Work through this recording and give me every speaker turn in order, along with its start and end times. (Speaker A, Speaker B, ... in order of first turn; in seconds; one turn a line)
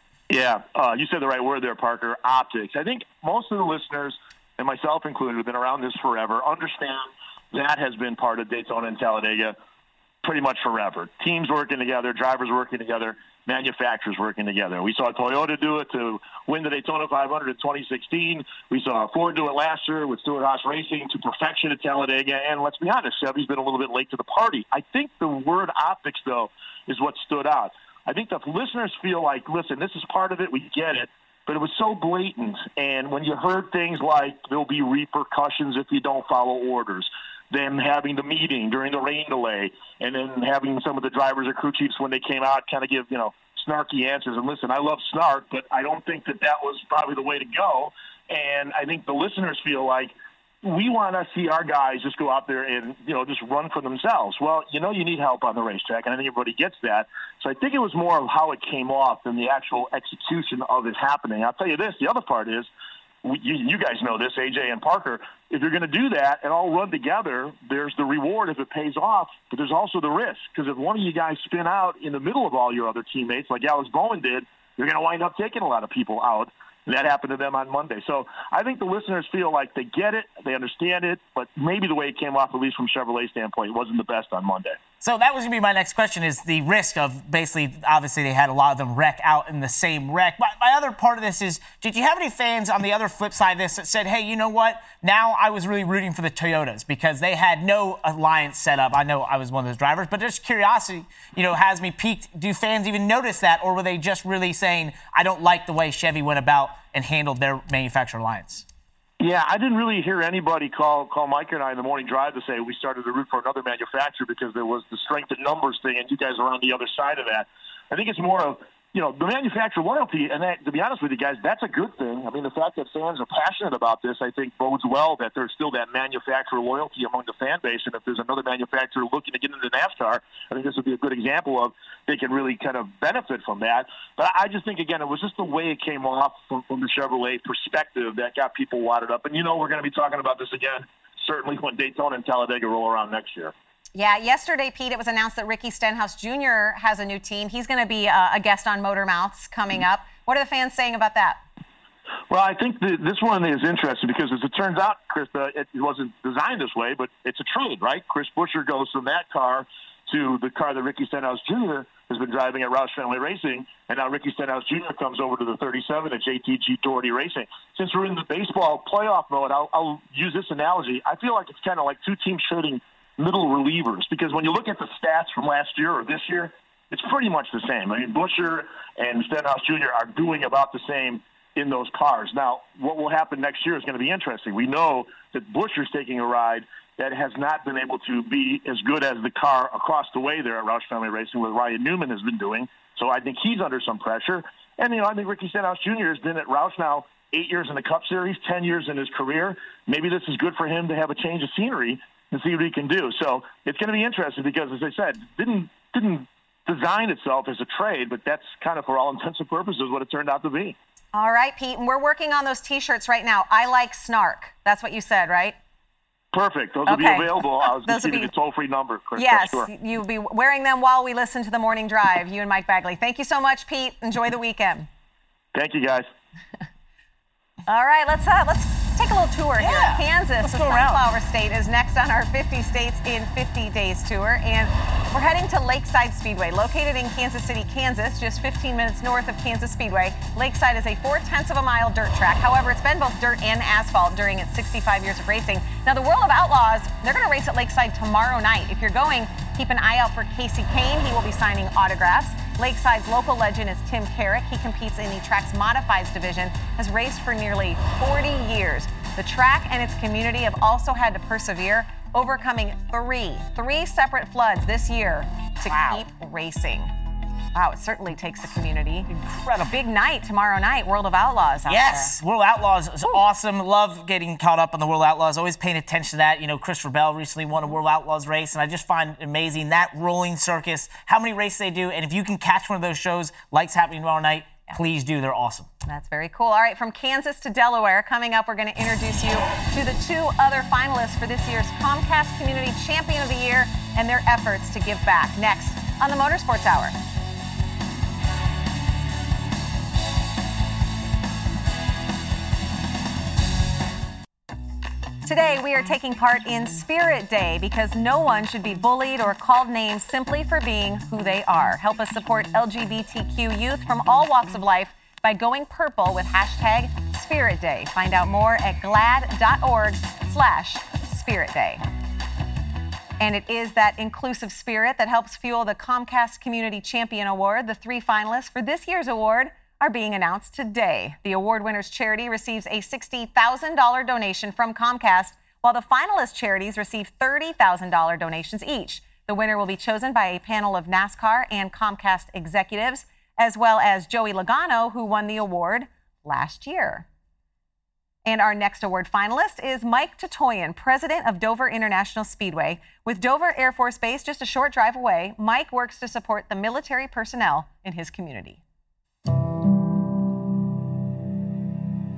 Speaker A: 0.3-9.5
Speaker A: 10.2-62.7
Speaker A: 63.2-84.8
Speaker B: 85.0-108.6
Speaker A: 109.2-143.5
Speaker C: 143.9-151.4
Speaker A: 152.3-210.8
Speaker C: 211.1-215.6
Speaker A: 216.3-219.7
Speaker C: 216.9-218.3
Speaker C: 219.2-224.9
Speaker A: 225.5-226.1
Speaker C: 227.7-266.9
Speaker B: 229.6-231.0
Speaker B: 265.6-266.0
Speaker C: 267.5-269.1
Speaker B: 269.1-269.8
Speaker C: 269.7-272.1
Speaker B: 271.7-285.7
Speaker C: 285.9-296.9
Speaker C: 305.2-321.8
Speaker C: 323.2-347.1
Speaker C: 348.2-358.6